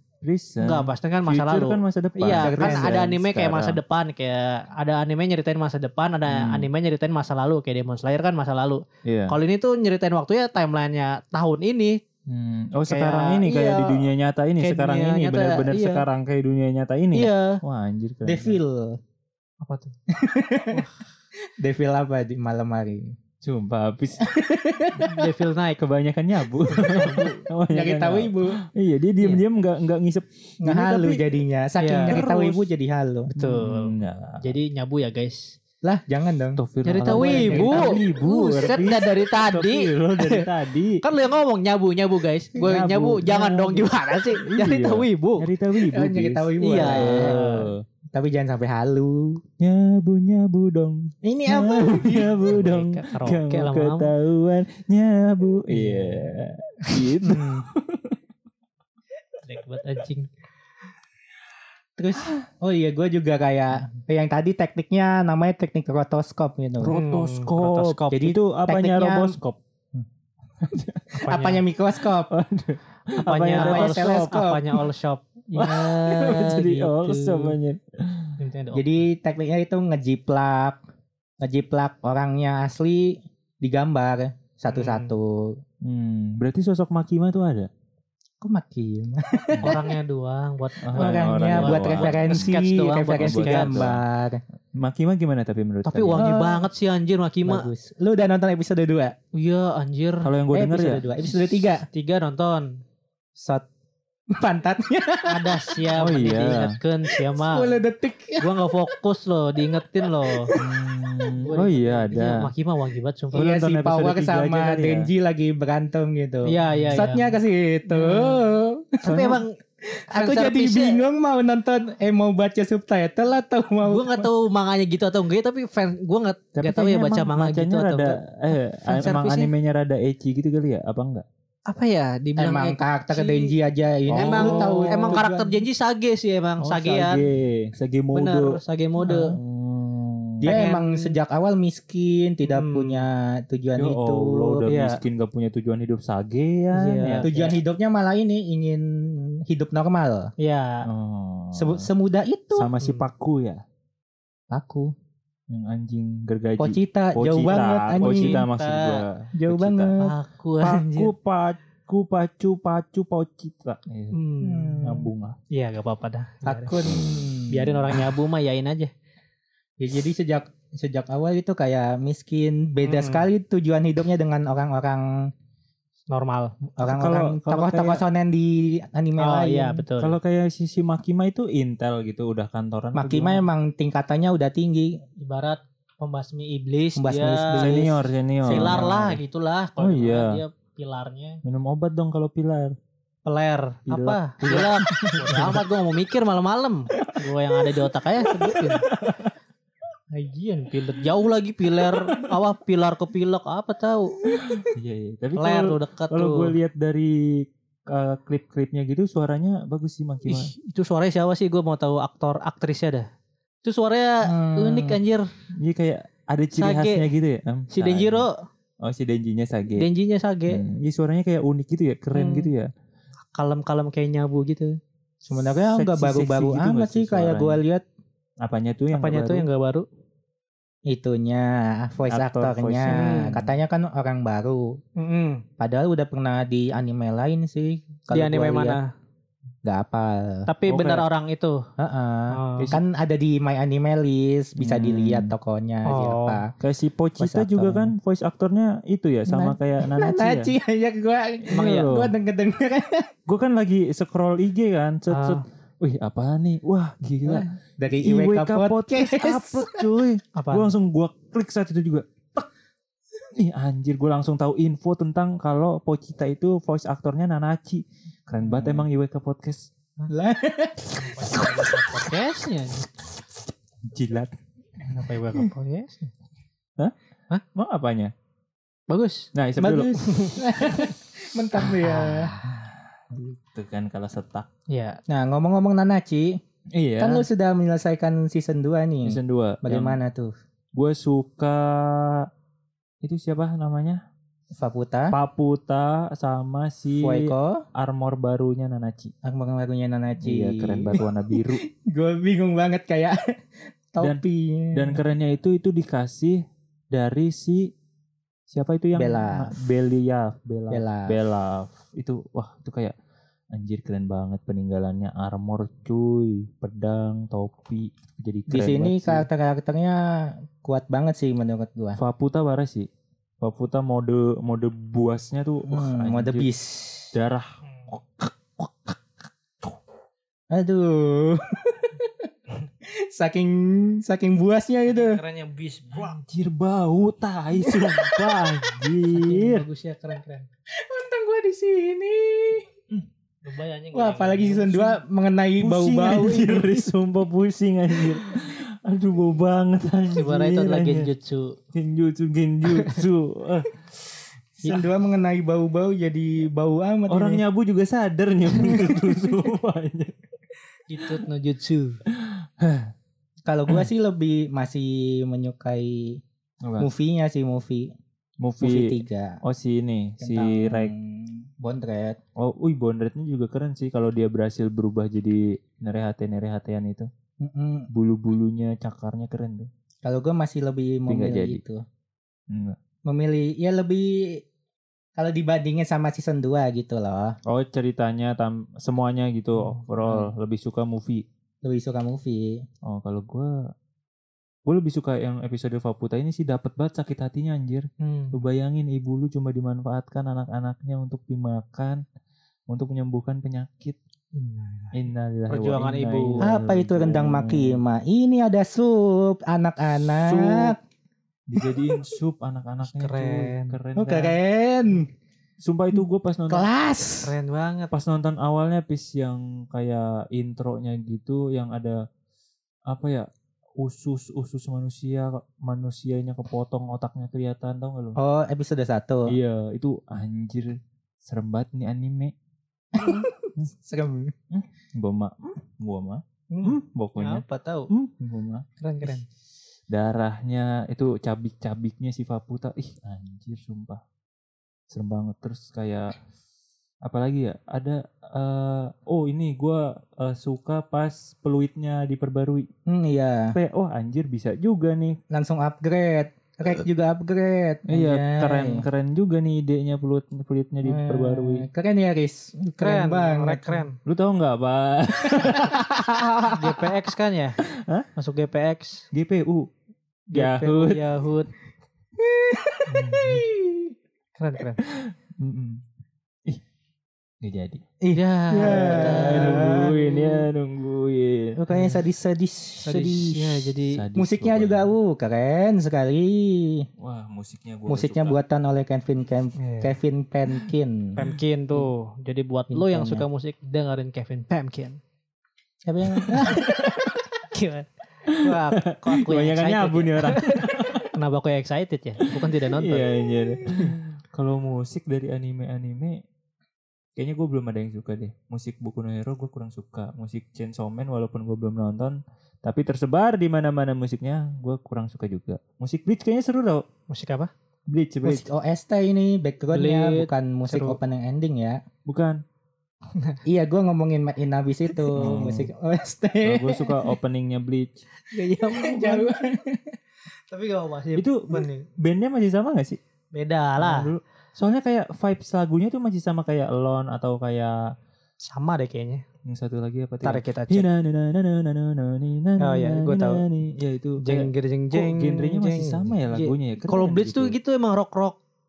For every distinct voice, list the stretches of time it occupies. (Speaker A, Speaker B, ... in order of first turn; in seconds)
Speaker A: 0.2-3.8, 6.3-6.7, 9.1-9.3, 12.3-18.6, 23.4-24.2, 25.8-31.2, 32.1-32.6, 33.3-34.5, 36.6-41.0, 42.6-47.8, 49.6-58.2, 62.2-62.4, 66.8-69.6, 70.6-71.2, 72.3-74.5, 75.6-78.3, 85.8-87.7, 90.9-92.6, 93.2-94.0, 94.8-96.3, 100.2-101.4, 106.0-106.7, 110.5-112.4, 113.4-115.1, 119.1-119.4, 126.6-131.2, 134.1-135.2, 136.6-138.6, 139.3-140.5, 143.8-147.3, 150.9-151.9, 152.5-153.6, 155.5-159.9, 160.6-164.2, 164.8-165.4, 176.8-178.0, 180.0-183.4, 187.5-189.2, 189.8-190.4, 191.4-192.8, 193.9-195.6, 198.6-199.3, 201.9-202.3, 204.3-210.5, 215.6-218.3, 218.8-219.9, 220.5-222.7, 225.3-227.6, 228.4-229.5, 232.1-233.2, 240.7-241.1, 244.6-245.3, 246.6-250.6, 251.5-252.1, 253.3-257.5, 258.0-262.5, 263.3-269.7, 273.9-274.3, 277.6-278.1, 279.3-280.0, 282.1-284.5, 286.7-287.3, 289.1-290.0, 290.8-292.3, 293.0-294.0, 295.1-299.1, 300.2-301.6, 304.7-306.4, 306.9-307.7, 308.5-312.9, 313.5-319.3, 322.0-322.9, 323.4-326.5, 327.1-329.1, 335.9-339.6, 345.6-351.1, 351.7-353.9, 357.1-360.1, 362.1-362.9, 366.6-366.9, 368.4-370.9, 372.4-377.1, 377.9-379.7, 381.1-381.6, 382.5-382.8, 387.5-391.2, 392.9-393.5, 394.7-402.0, 402.7-404.0, 404.9-407.8, 410.2-410.8, 411.5-414.4, 415.6-416.7, 417.9-422.0, 422.9-423.3, 423.8-428.2, 429.3-432.3, 434.5-439.1, 439.9-444.0, 444.9-446.2, 447.0-452.7, 453.5-455.2, 457.9-461.7, 464.1-466.9, 467.7-468.1, 469.1-469.7, 470.3-471.2, 472.9-473.5, 474.8-475.8, 477.4-477.8, 478.7-481.6, 483.9-484.9, 487.0-488.4, 496.1-496.6, 498.3-501.1, 502.4-506.2, 507.2-516.8, 517.9-518.5, 522.1-522.4, 525.2-525.7, 526.4-528.0, 531.2-533.0, 533.8-537.8, 539.5-547.6
Speaker B: 0.6-12.0, 12.9-14.1, 14.6-16.1, 17.1-17.6, 19.6-19.9, 25.0-25.8, 26.7-27.4, 31.8-32.2, 33.4-35.6, 36.8-40.5, 41.0-45.5, 46.6-47.7, 52.4-54.1, 55.8-56.1, 59.4-60.3, 66.9-68.2, 71.2-71.6, 73.2-77.5, 78.4-79.0, 84.7-85.1, 89.6-93.7, 95.9-97.7, 99.3-100.3, 101.9-102.7, 105.3-107.8, 108.4-110.5, 111.4-113.6, 116.5-117.3, 117.9-118.4, 119.0-119.6, 120.1-121.0, 123.8-128.2, 128.9-129.5, 131.7-133.5, 134.1-137.2, 138.1-139.3, 140.4-141.2, 142.5-143.1, 144.7-145.0, 146.7-147.6, 150.4-150.8, 158.0-159.0, 160.0-161.1, 164.1-164.8, 165.5-166.8, 167.5-168.9, 172.8-173.3, 176.1-176.5, 179.2-180.2, 185.2-187.8, 188.5-191.4, 193.3-198.8, 200.1-204.2, 205.4-206.5, 210.3-213.1, 213.6-215.3, 216.6-217.1, 217.7-218.4, 219.8-220.6, 222.1-222.5, 223.3-224.8, 228.9-229.9, 232.9-233.4, 235.0-235.4, 238.1-238.9, 240.5-241.6, 242.3-242.7, 245.9-246.4, 251.5-251.9, 255.1-255.4, 260.4-260.7, 270.9-272.9, 274.8-276.1, 278.9-279.3, 280.1-280.6, 281.8-282.1, 284.7-285.0, 327.6-327.9, 334.9-336.2, 339.1-340.5, 343.4-345.0, 350.1-351.6, 352.7-353.0, 360.9-362.0, 398.0-398.4, 404.4-406.5, 412.8-413.8, 417.2-417.9, 433.0-433.3, 437.2-437.9, 438.8-439.3, 462.8-464.0, 466.5-467.6, 468.2-469.1, 470.3-471.5, 474.4-474.8, 478.1-479.8, 481.7-482.0, 482.8-484.0, 489.6-489.9, 491.2-495.0, 497.5-503.1, 517.1-517.5, 519.7-521.0, 523.1-523.4, 528.3-529.3, 530.5-531.9, 533.3-534.1, 538.4-539.2, 540.2-540.9, 542.6-543.5, 544.2-548.4
Speaker C: 2.3-3.0, 18.2-19.0, 20.1-20.8, 21.6-23.1, 24.2-25.2, 27.7-28.6, 30.6-33.3, 35.8-38.0, 45.9-47.4, 48.1-49.4, 51.2-52.5, 57.2-57.6, 62.0-67.0, 68.1-69.4, 71.3-72.3, 73.5-74.6, 78.7-80.8, 81.4-85.6, 88.4-89.9, 90.9-94.4, 96.1-96.7, 97.5-99.2, 100.5-101.8, 103.4-103.7, 104.3-105.9, 107.1-108.7, 110.0-110.8, 113.3-119.3, 119.9-124.3, 132.4-135.6, 139.1-139.3, 140.4-144.7, 147.2-150.3, 151.5-152.7, 154.5-154.9, 156.6-158.4, 159.4-160.0, 164.4-165.1, 166.4-168.0, 169.8-175.1, 176.8-179.8, 182.9-185.0, 187.0-189.2, 214.3-215.0, 225.2-227.8, 230.9-234.8, 235.6-238.8, 239.6-240.5, 241.8-246.5, 247.2-247.9, 249.3-253.1, 257.3-259.9, 268.4-268.9, 270.1-271.5, 279.6-282.3, 285.1-286.4, 287.0-290.3, 294.6-295.1, 297.0-297.6, 299.2-303.2, 303.9-305.0, 308.9-309.5, 310.7-311.1, 318.5-322.0, 325.7-327.1, 330.5-332.3, 332.8-335.2, 337.6-338.3, 340.7-342.7, 343.9-346.9, 354.6-357.4, 358.6-359.2, 363.4-366.2, 366.8-367.9, 368.6-369.4, 370.2-372.2, 377.4-377.9, 380.0-381.8, 383.1-384.4, 385.2-387.4, 391.6-392.6, 406.4-410.8, 411.6-412.0, 414.0-415.1, 416.5-417.3, 428.2-429.4, 432.9-434.3, 436.5-436.8, 452.9-453.6, 455.3-458.9, 460.8-463.9, 465.3-465.7, 472.2-473.9, 478.0-480.4, 481.6-486.9, 487.9-491.2, 492.7-493.2, 495.8-497.1, 518.2-521.8, 523.5-527.0, 528.4-530.0